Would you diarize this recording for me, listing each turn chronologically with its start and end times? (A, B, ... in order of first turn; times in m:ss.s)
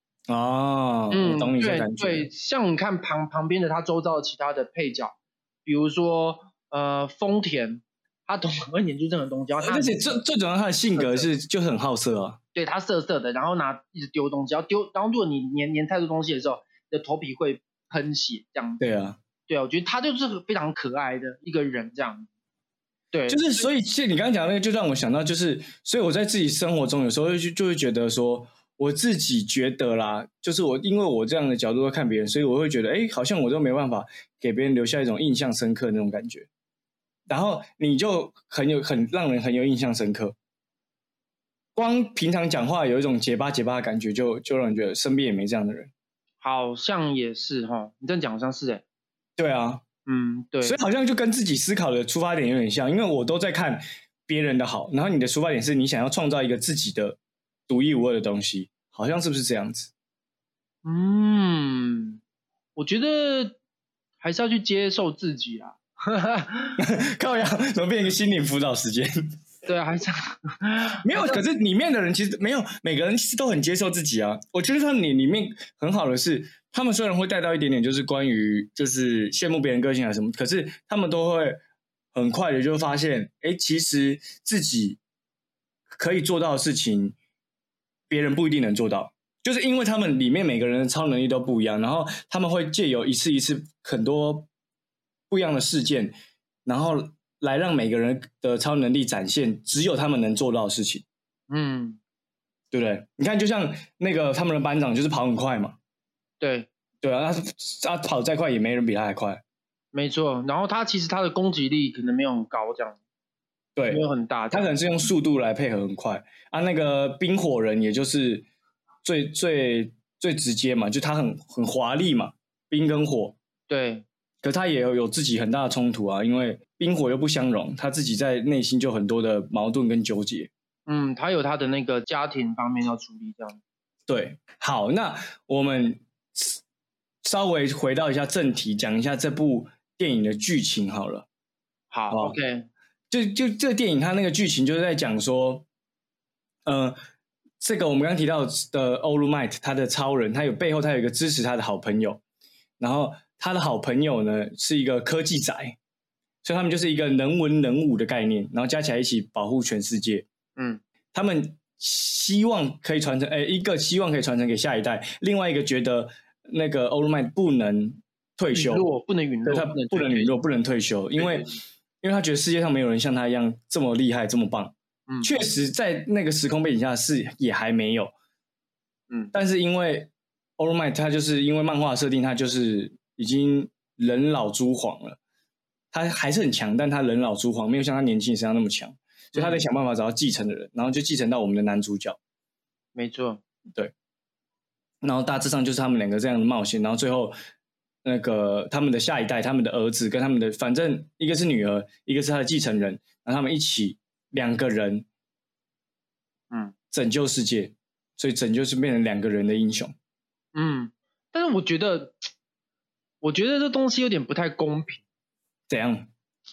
0:00.3-0:02.3 A
0:01.1-0:10.2 B
0:09.6-0:12.4 A
0:11.0-0:11.3 B
0:12.5-0:18.8 B
0:18.8-0:19.2 A
0:19.5-0:22.3 B
0:23.1-0:23.7 B
0:23.3-0:36.5 A
0:37.3-0:40.4 A
0:41.7-0:45.9 A
0:46.4-0:48.8 B
0:49.4-0:49.8 A
0:50.0-0:50.8 B
0:50.6-0:59.9 A
1:00.8-1:02.2 B
1:02.8-1:03.6 B
1:04.2-1:06.8 B
1:06.8-1:09.1 A
1:09.6-1:11.4 B
1:11.0-1:21.6 A
1:22.1-1:25.0 A
1:25.9-1:27.2 A
1:28.1-1:34.5 A
1:35.3-1:36.1 A
1:36.6-1:41.0 A
1:41.5-1:42.0 B
1:42.7-1:45.8 A
1:46.4-1:46.7 B
1:47.0-1:49.4 A
1:49.9-1:53.0 B
1:53.8-1:58.4 A
1:53.9-1:54.8 B
1:59.0-2:03.4 A
2:03.7-2:04.0 B
2:04.4-2:10.5 A
2:10.9-2:13.6 B
2:14.1-2:16.6 A
2:17.2-2:21.3 A
2:21.9-2:22.7 B
2:22.1-2:22.4 A
2:23.1-2:25.6 A
2:26.6-2:27.0 A
2:27.6-2:32.2 A
2:32.8-2:35.8 A
2:36.4-2:40.2 A
2:41.1-2:48.9 A
2:48.5-2:50.3 B
2:49.4-2:58.1 A
2:51.2-2:51.5 B
2:59.3-3:05.2 A
3:05.9-3:12.2 A
3:09.3-3:09.6 B
3:12.9-3:13.4 B
3:15.0-3:17.3 A
3:18.0-3:25.0 A
3:26.9-3:29.9 A
3:30.5-3:32.2 B
3:33.2-3:35.0 B
3:35.7-3:36.1 A